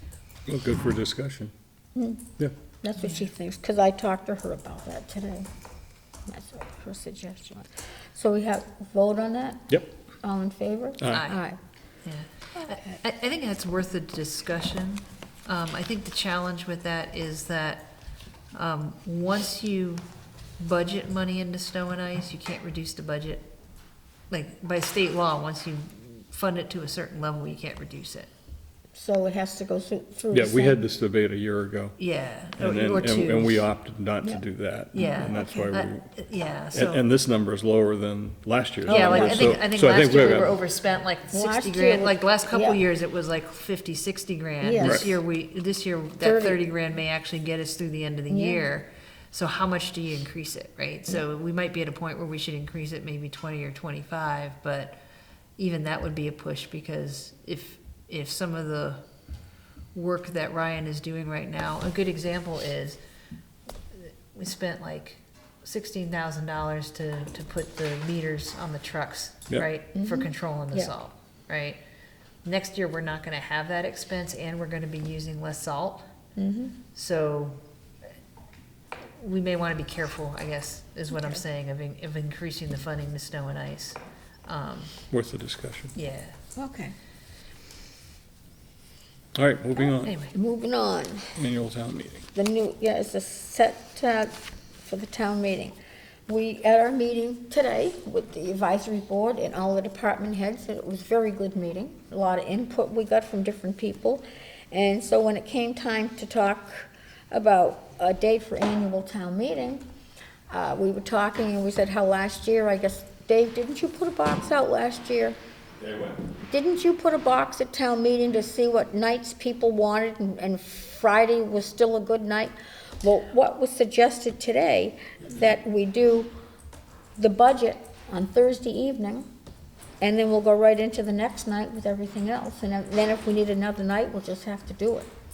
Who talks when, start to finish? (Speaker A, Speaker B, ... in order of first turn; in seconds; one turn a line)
Speaker A: 0.5-1.5
Speaker B: 1.9-5.5
Speaker B: 6.3-11.6
Speaker A: 11.0-11.3
Speaker C: 11.1-11.4
Speaker C: 12.0-17.9
Speaker B: 12.6-12.9
Speaker C: 18.5-20.0
Speaker C: 20.6-23.5
Speaker C: 24.3-28.3
Speaker B: 28.9-30.8
Speaker A: 30.3-32.0
Speaker C: 32.0-33.6
Speaker A: 32.6-36.1
Speaker C: 34.9-37.0
Speaker B: 35.0-35.7
Speaker A: 36.7-40.6
Speaker B: 38.9-39.5
Speaker C: 38.9-55.0
Speaker B: 41.3-42.8
Speaker B: 44.6-45.0
Speaker A: 44.8-45.2
Speaker B: 46.2-46.6
Speaker B: 48.3-48.6
Speaker C: 55.6-59.0
Speaker C: 59.9-63.0
Speaker C: 63.9-71.8
Speaker B: 69.9-70.9
Speaker C: 72.4-76.0
Speaker B: 76.4-76.8
Speaker C: 76.9-77.6
Speaker C: 79.2-85.0
Speaker B: 81.1-81.4
Speaker A: 85.1-85.9
Speaker C: 85.9-86.3
Speaker B: 86.5-86.9
Speaker A: 89.3-90.2
Speaker C: 90.0-90.3
Speaker B: 90.3-91.3
Speaker A: 91.3-92.3
Speaker B: 92.3-95.8
Speaker B: 96.3-109.8
Speaker B: 110.5-115.4
Speaker B: 116.4-126.3
Speaker B: 127.2-129.3
Speaker B: 130.0-135.1